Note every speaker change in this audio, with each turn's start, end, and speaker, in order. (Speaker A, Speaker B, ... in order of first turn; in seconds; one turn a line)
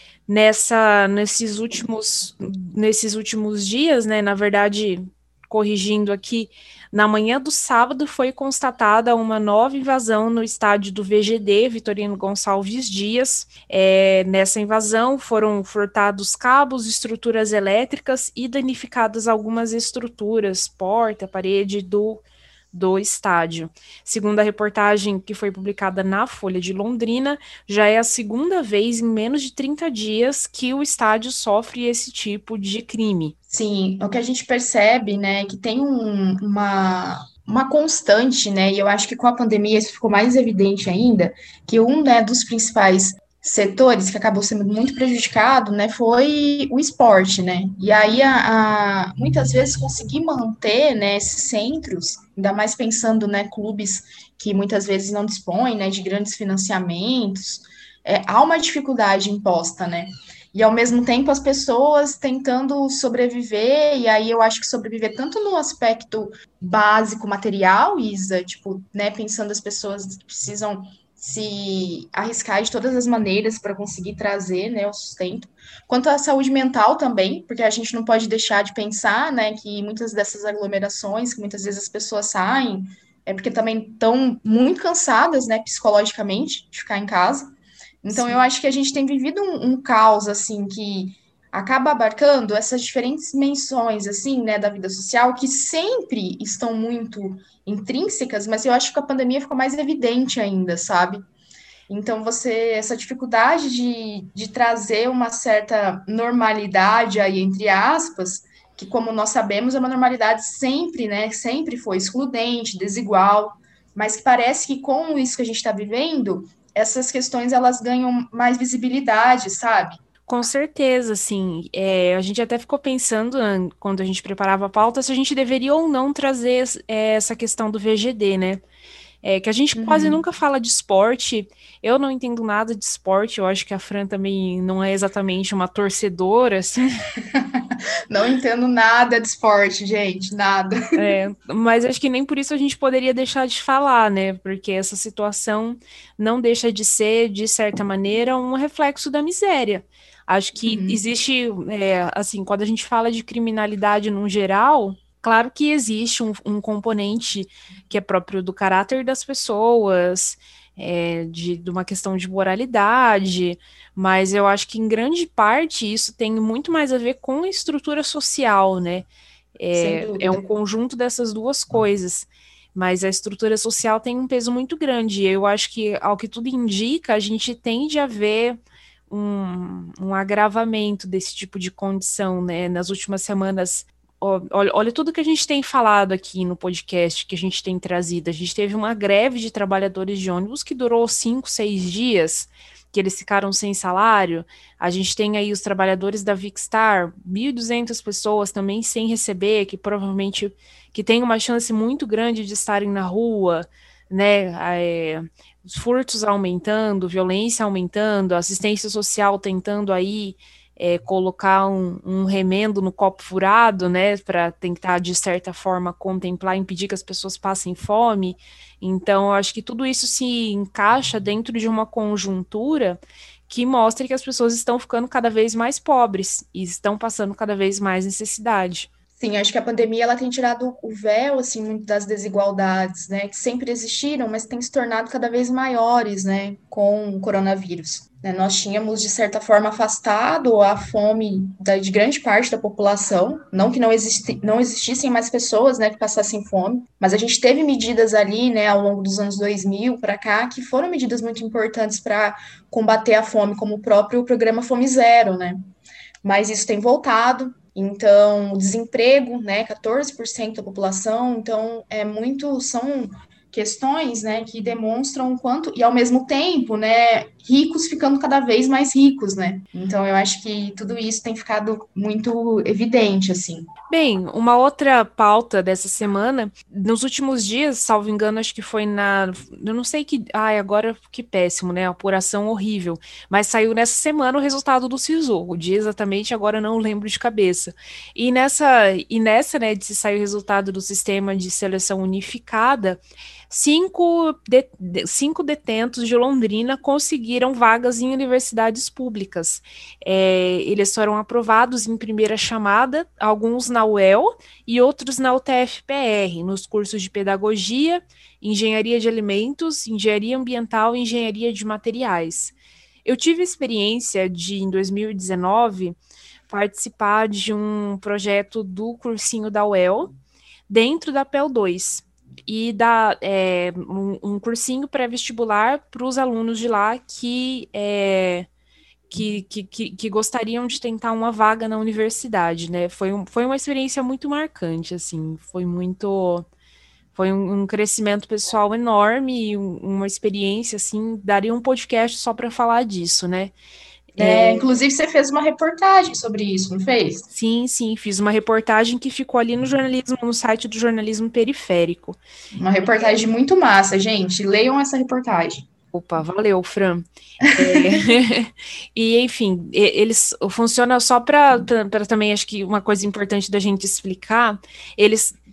Speaker A: 0.3-33.3
Speaker B: 33.5-87.5
Speaker B: 88.0-101.2
Speaker A: 88.1-88.4
Speaker B: 101.9-120.0
Speaker A: 120.3-128.6
Speaker A: 129.2-137.0
Speaker B: 129.8-130.2
Speaker B: 137.3-140.8
Speaker A: 140.9-169.1
Speaker B: 150.6-151.0
Speaker A: 169.6-178.6
Speaker B: 169.7-170.5
Speaker A: 179.1-228.9
Speaker B: 229.2-255.6
Speaker B: 256.2-273.7
Speaker A: 273.9-312.5
Speaker A: 313.0-316.0
Speaker A: 316.5-320.1
Speaker A: 320.7-328.4
Speaker A: 329.1-336.4
Speaker A: 337.1-343.5
Speaker A: 344.1-344.6
Speaker B: 344.2-347.3
Speaker A: 347.3-352.2
Speaker B: 352.6-355.6
Speaker A: 355.9-365.3
Speaker B: 357.6-358.0